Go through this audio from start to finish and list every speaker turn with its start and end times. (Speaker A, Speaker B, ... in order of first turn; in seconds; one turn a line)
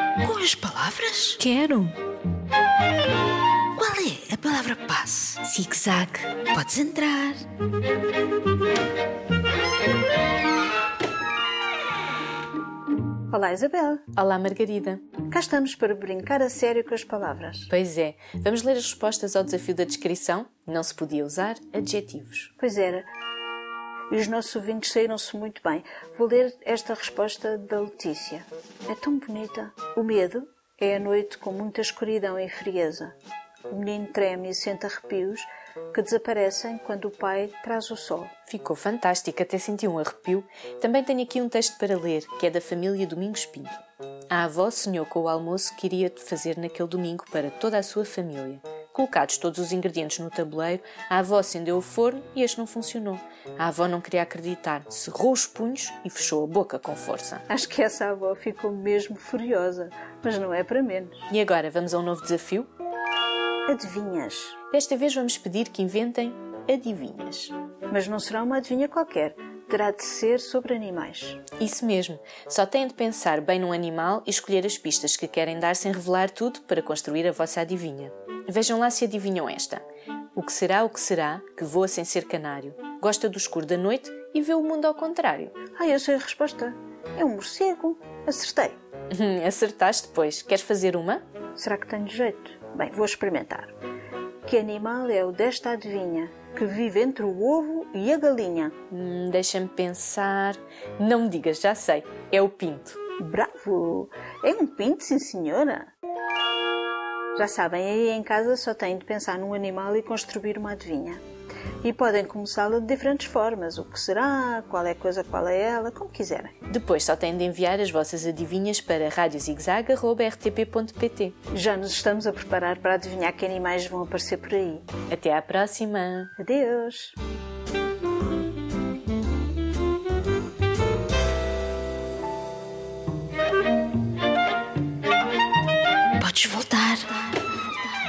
Speaker A: 0.2-1.4
Speaker B: 1.4-1.9
Speaker A: 3.8-5.5
Speaker B: 5.5-6.3
Speaker A: 6.4-7.4
Speaker C: 13.3-14.0
Speaker B: 14.1-15.0
Speaker C: 15.3-17.7
Speaker B: 17.7-22.5
Speaker C: 22.6-23.1
Speaker C: 24.1-33.1
Speaker C: 33.7-38.3
Speaker B: 38.5-43.8
Speaker B: 44.3-57.4
Speaker C: 57.5-61.3
Speaker B: 61.3-62.7
Speaker C: 63.7-64.5
Speaker B: 64.7-67.5
Speaker C: 67.9-71.4
Speaker B: 71.6-79.8
Speaker B: 80.3-85.5
Speaker C: 85.7-88.8
Speaker B: 89.1-91.2
Speaker C: 91.6-93.7
Speaker C: 94.4-98.7
Speaker B: 98.9-103.0
Speaker C: 103.2-105.9
Speaker C: 107.3-111.2
Speaker C: 111.8-116.5
Speaker B: 116.7-121.3
Speaker C: 121.5-124.9
Speaker B: 125.1-126.3
Speaker C: 126.4-127.2
Speaker A: 136.2-137.3